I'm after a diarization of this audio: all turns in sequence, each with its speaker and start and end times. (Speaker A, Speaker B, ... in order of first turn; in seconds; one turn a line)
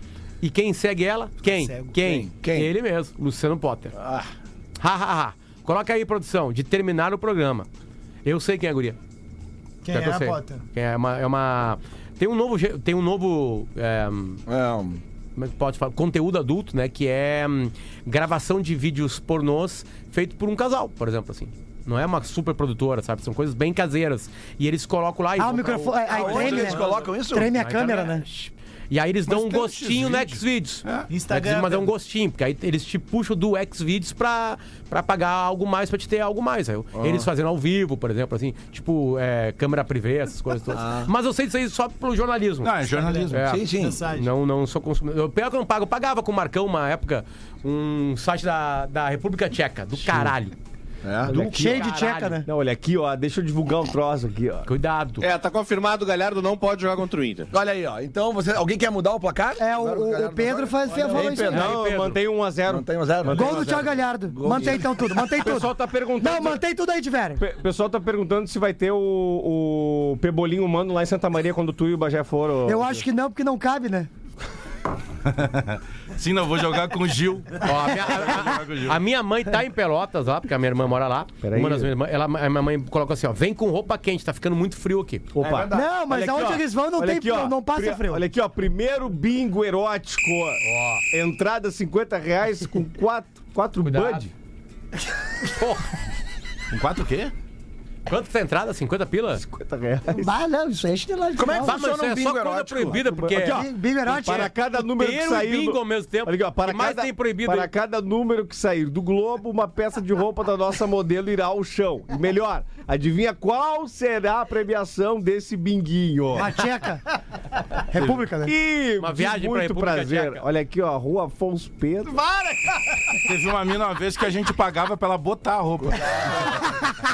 Speaker A: 0.4-3.9
Speaker B: 1.4-1.9
Speaker C: 2.0-2.7
Speaker C: 4.0-4.3
Speaker A: 4.8-7.7
Speaker A: 8.2-9.0
Speaker B: 9.8-10.6
Speaker A: 9.9-14.4
Speaker C: 14.5-15.0
Speaker A: 15.4-42.8
Speaker D: 25.4-28.2
Speaker C: 26.1-27.5
Speaker E: 29.3-31.1
Speaker B: 31.1-31.9
Speaker C: 36.9-37.3
Speaker C: 40.7-41.1
Speaker E: 42.6-43.5
Speaker B: 42.9-44.3
Speaker A: 43.3-50.5
Speaker C: 43.3-44.0
Speaker C: 51.0-51.3
Speaker F: 51.3-51.9
Speaker D: 51.3-52.5
Speaker A: 51.3-52.4
Speaker F: 52.5-54.7
Speaker A: 54.6-55.3
Speaker G: 55.2-57.5
Speaker C: 57.5-61.8
Speaker D: 59.6-61.7
Speaker A: 61.3-62.2
Speaker F: 61.4-64.0
Speaker C: 62.7-65.1
Speaker D: 63.3-67.4
Speaker F: 65.4-66.6
Speaker F: 67.4-73.0
Speaker D: 72.6-74.1
Speaker E: 75.3-79.0
Speaker A: 77.6-85.3
Speaker F: 81.4-81.9
Speaker F: 85.3-94.3
Speaker C: 85.4-85.9
Speaker D: 85.7-88.2
Speaker A: 90.6-91.0
Speaker A: 93.8-94.3
Speaker A: 95.5-95.8
Speaker E: 96.7-97.3
Speaker A: 98.1-99.4
Speaker F: 99.3-100.3
Speaker D: 100.1-101.8
Speaker C: 101.3-103.0
Speaker A: 101.6-103.7
Speaker F: 103.3-116.5
Speaker D: 103.3-104.5
Speaker A: 104.5-107.7
Speaker D: 116.3-117.0
Speaker D: 117.8-118.5
Speaker F: 118.0-122.1
Speaker A: 119.0-120.4
Speaker B: 122.0-123.2
Speaker E: 123.2-126.3